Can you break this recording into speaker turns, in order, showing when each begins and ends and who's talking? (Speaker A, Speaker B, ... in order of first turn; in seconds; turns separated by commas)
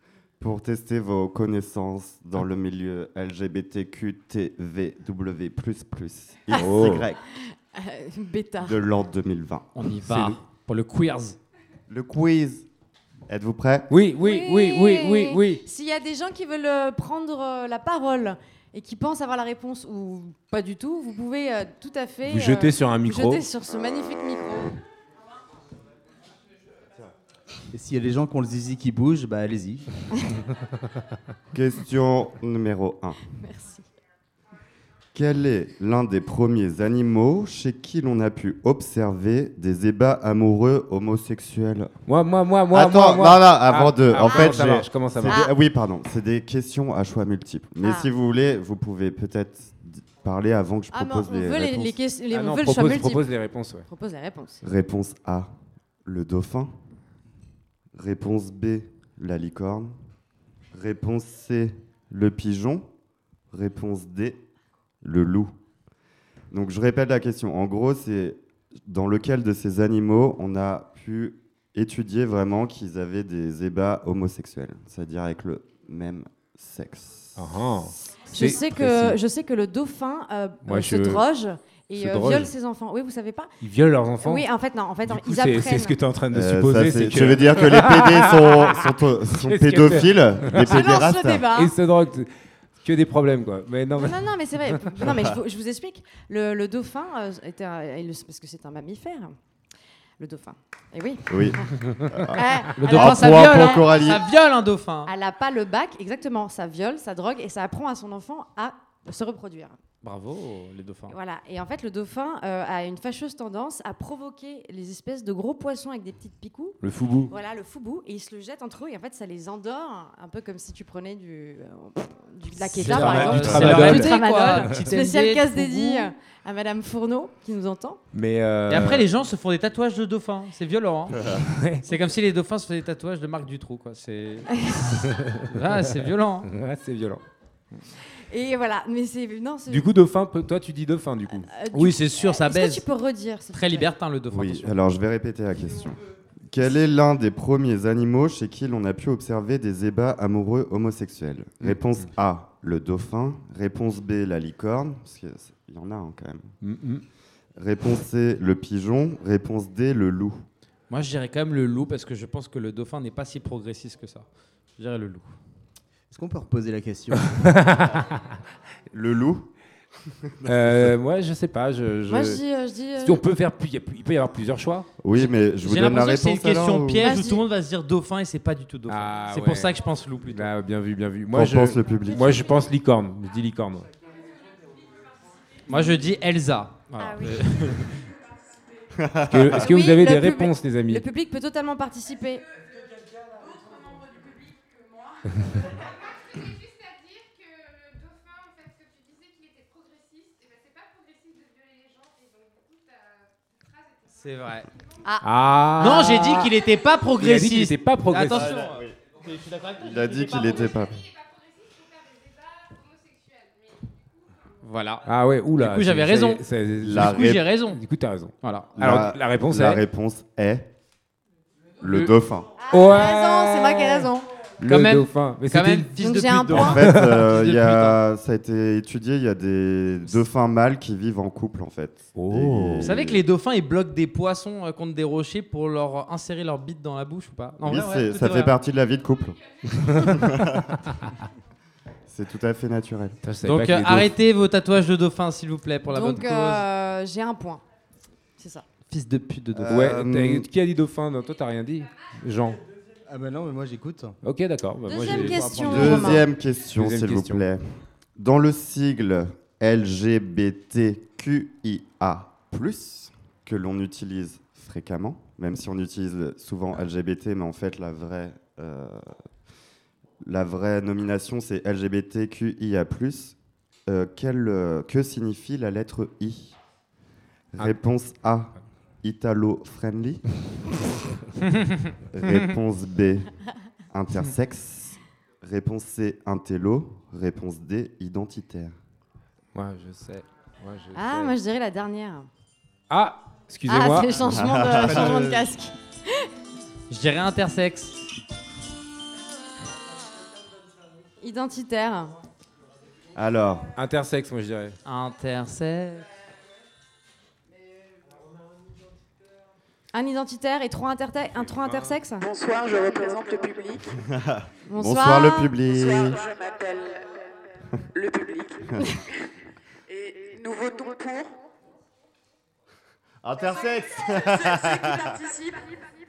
Speaker A: 0.4-7.2, Speaker B: 6.5-7.0, Speaker C: 7.4-8.8, Speaker A: 8.6-9.7, Speaker D: 9.8-11.4, Speaker B: 10.0-10.4, Speaker A: 11.9-12.7, Speaker A: 13.3-13.9, Speaker B: 13.9-15.6, Speaker C: 14.2-24.8, Speaker B: 22.3-23.4, Speaker E: 27.7-29.9, Speaker A: 31.5-33.2, Speaker C: 33.4-33.8, Speaker A: 35.1-41.9, Speaker B: 42.1-45.5, Speaker A: 42.7-52.0, Speaker C: 44.3-44.6, Speaker C: 45.2-45.5, Speaker C: 50.9-53.3, Speaker B: 52.3-53.9, Speaker C: 53.9-54.6, Speaker A: 54.6-55.5, Speaker A: 56.0-56.8, Speaker A: 57.9-60.0, Speaker A: 60.7-62.9, Speaker A: 63.5-64.4, Speaker A: 65.0-65.5, Speaker A: 66.5-77.9, Speaker B: 77.4-79.2, Speaker C: 78.3-83.5, Speaker B: 80.7-81.2, Speaker B: 82.0-82.5, Speaker B: 83.6-84.5, Speaker C: 84.2-86.0, Speaker B: 85.1-88.8, Speaker A: 86.3-91.5, Speaker B: 89.5-94.3, Speaker C: 90.6-91.7, Speaker C: 94.0-99.4, Speaker C: 100.2-101.6, Speaker A: 101.3-104.2, Speaker C: 102.3-103.8, Speaker D: 102.8-105.1, Speaker C: 105.1-109.8, Speaker D: 110.0-111.2, Speaker C: 111.1-128.0, Speaker B: 116.8-117.3, Speaker B: 122.8-124.8, Speaker D: 122.8-126.1, Speaker B: 128.1-129.1, Speaker D: 128.7-131.2, Speaker B: 131.5-131.8, Speaker D: 131.8-134.5, Speaker C: 134.7-134.9, Speaker D: 135.5-136.5, Speaker B: 136.5-137.2, Speaker C: 138.3-139.9, Speaker B: 139.7-141.5, Speaker C: 141.5-143.9, Speaker D: 141.7-142.8, Speaker D: 143.5-144.8, Speaker A: 144.3-156.6, Speaker B: 156.6-157.0, Speaker A: 157.6-160.4, Speaker D: 160.9-164.3, Speaker D: 164.8-165.3, Speaker E: 166.1-167.4, Speaker B: 167.3-168.1, Speaker A: 168.9-169.5, Speaker A: 170.2-170.9, Speaker B: 170.5-172.4, Speaker C: 172.1-173.2, Speaker B: 173.0-174.9, Speaker A: 175.0-177.2, Speaker D: 175.2-180.5, Speaker C: 177.0-177.4, Speaker B: 178.9-183.9, Speaker A: 181.3-182.4, Speaker D: 185.7-188.0, Speaker C: 187.0-187.5, Speaker A: 189.0-189.5, Speaker B: 189.3-191.0, Speaker C: 189.6-192.4, Speaker D: 204.2-204.7, Speaker B: 205.2-206.5, Speaker C: 205.8-206.2, Speaker D: 205.8-210.8, Speaker B: 207.2-208.6, Speaker A: 208.3-209.0, Speaker A: 209.8-210.9, Speaker D: 214.6-215.1, Speaker B: 215.1-219.8, Speaker D: 215.6-217.8, Speaker A: 216.8-217.4, Speaker D: 218.4-218.7, Speaker A: 218.8-220.7, Speaker A: 221.8-222.5, Speaker C: 222.6-224.3, Speaker B: 222.7-224.1, Speaker B: 224.6-227.2, Speaker D: 224.7-228.0, Speaker C: 226.0-226.8, Speaker A: 226.6-233.2, Speaker B: 232.2-233.0, Speaker D: 232.8-238.6, Speaker A: 237.7-239.4, Speaker B: 239.8-240.3, Speaker A: 240.0-240.8, Speaker A: 242.1-243.2, Speaker B: 243.2-244.1, Speaker D: 243.4-246.6, Speaker C: 245.9-247.6, Speaker C: 248.4-248.7, Speaker D: 248.9-249.9, Speaker A: 249.6-250.5, Speaker B: 249.7-252.6, Speaker E: 253.1-254.2, Speaker B: 254.2-257.4, Speaker C: 254.8-256.2, Speaker A: 255.3-269.1, Speaker A: 270.2-276.6, Speaker A: 277.6-280.2, Speaker A: 282.1-283.3, Speaker A: 283.9-288.8, Speaker B: 289.5-291.3, Speaker C: 290.9-292.3, Speaker B: 292.9-294.2, Speaker C: 293.7-296.1, Speaker A: 294.3-295.4, Speaker B: 294.9-295.3, Speaker D: 296.9-298.0, Speaker C: 301.2-302.1, Speaker A: 303.1-303.7, Speaker B: 303.8-304.8, Speaker D: 304.9-306.1, Speaker C: 309.9-312.3, Speaker B: 311.4-311.9, Speaker F: 312.3-313.8, Speaker A: 314.1-316.2, Speaker C: 314.7-315.5, Speaker F: 315.7-317.1, Speaker F: 317.9-318.6, Speaker F: 319.9-321.3, Speaker A: 323.2-325.2, Speaker F: 324.4-325.6